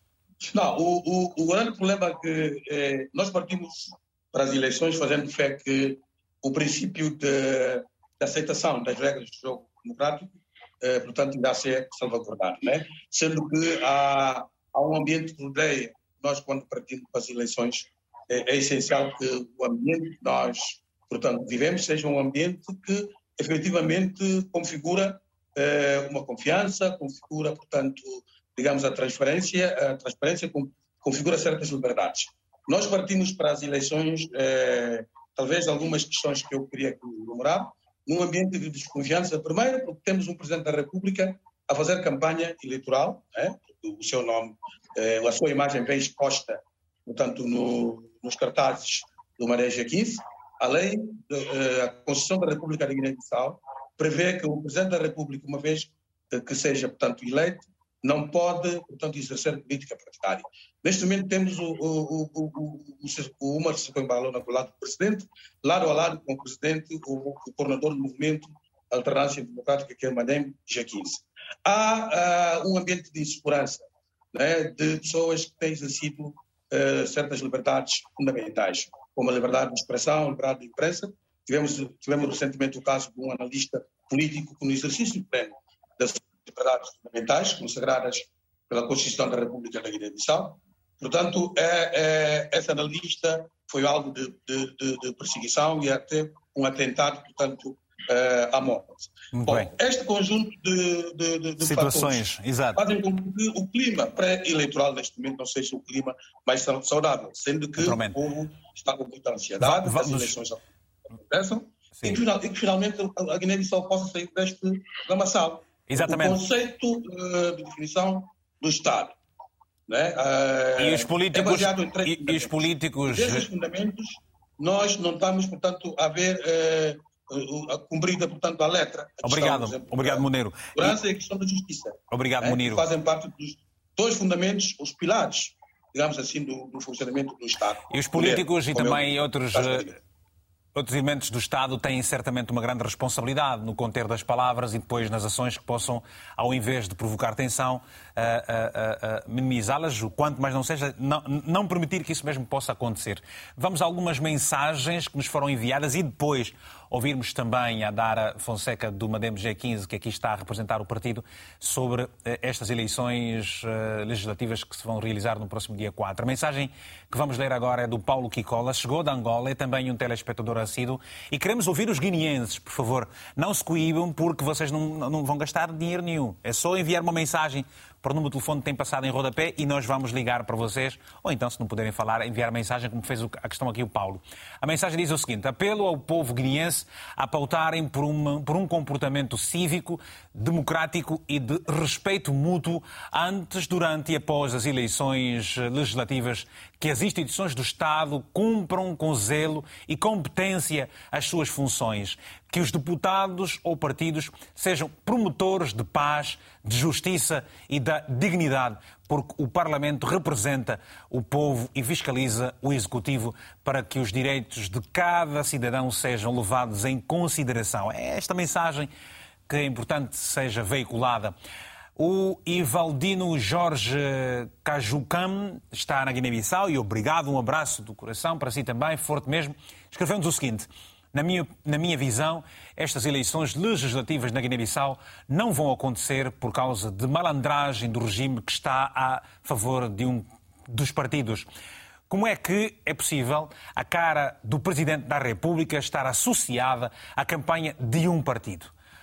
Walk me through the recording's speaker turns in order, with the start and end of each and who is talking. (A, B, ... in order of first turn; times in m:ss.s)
0:00.4-1:42.2 A
1:39.3-1:39.7 B
1:41.6-1:42.8 B
1:42.8-1:50.6 A
1:47.8-1:48.2 B
1:49.6-1:50.3 B
1:51.2-1:59.1 A
1:55.9-1:56.4 B
1:59.9-2:02.6 A
2:00.8-2:03.4 B
2:03.1-2:10.2 A
2:09.2-2:11.0 B
2:10.8-2:19.9 A
2:12.1-2:12.8 B
2:17.9-2:19.9 B
2:20.7-3:38.9 B
3:39.5-3:41.4 B
3:42.0-4:01.4 B
4:02.1-4:08.7 B